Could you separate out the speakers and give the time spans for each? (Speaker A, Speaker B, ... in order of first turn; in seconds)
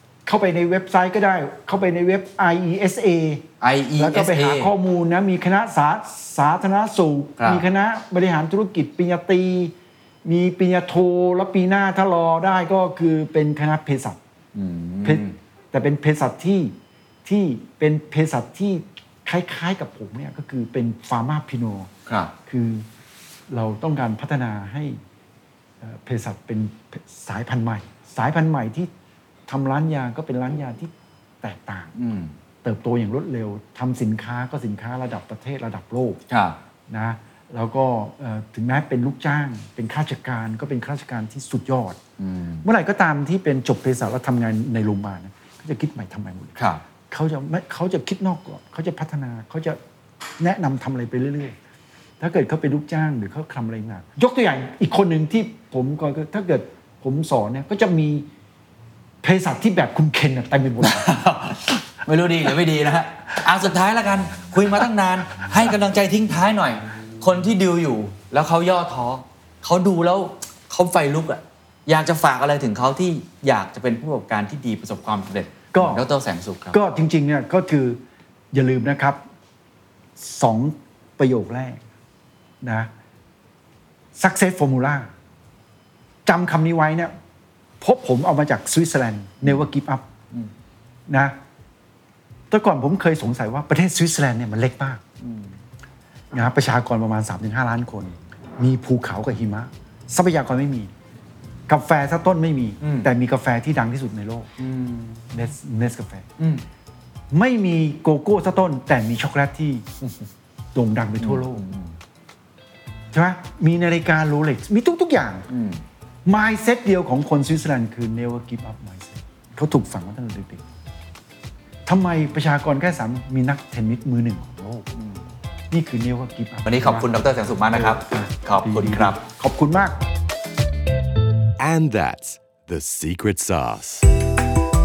Speaker A: 0.3-3.5, 4.0-9.7, 10.2-14.2, 15.0-21.9, 22.5-22.9, 23.5-25.0, 25.8-28.9, 29.5-30.9, 31.4-31.9, 32.6-36.2, 36.9-42.0, 42.6-46.6, 47.1-49.8, 50.4-51.5, 52.2-58.3, 59.2-61.1, 75.7-76.0, 76.7-78.0, 78.5-79.2, 80.2-81.8, 82.6-82.9, 84.2-85.1, 86.3-87.1, 87.8-90.0, 91.1-91.4, 92.5-95.0, 96.3-100.9, 101.7-104.5, 105.3-106.3, 107.3-109.9, 110.8-111.7, 113.1-115.5, 116.2-120.6, 121.9-124.9, 125.7-127.1, 127.7-130.0
Speaker B: 3.6-4.7, 7.4-7.6, 14.5-15.3, 22.1-22.3, 32.0-32.3, 36.3-36.6, 42.2-42.6, 46.6-46.8, 60.8-76.8, 95.2-95.5, 102.8-103.1, 104.6-105.4, 106.4-106.6, 111.2-112.0, 115.5-115.8, 125.0-125.2, 126.7-129.2
Speaker C: 131.6-134.1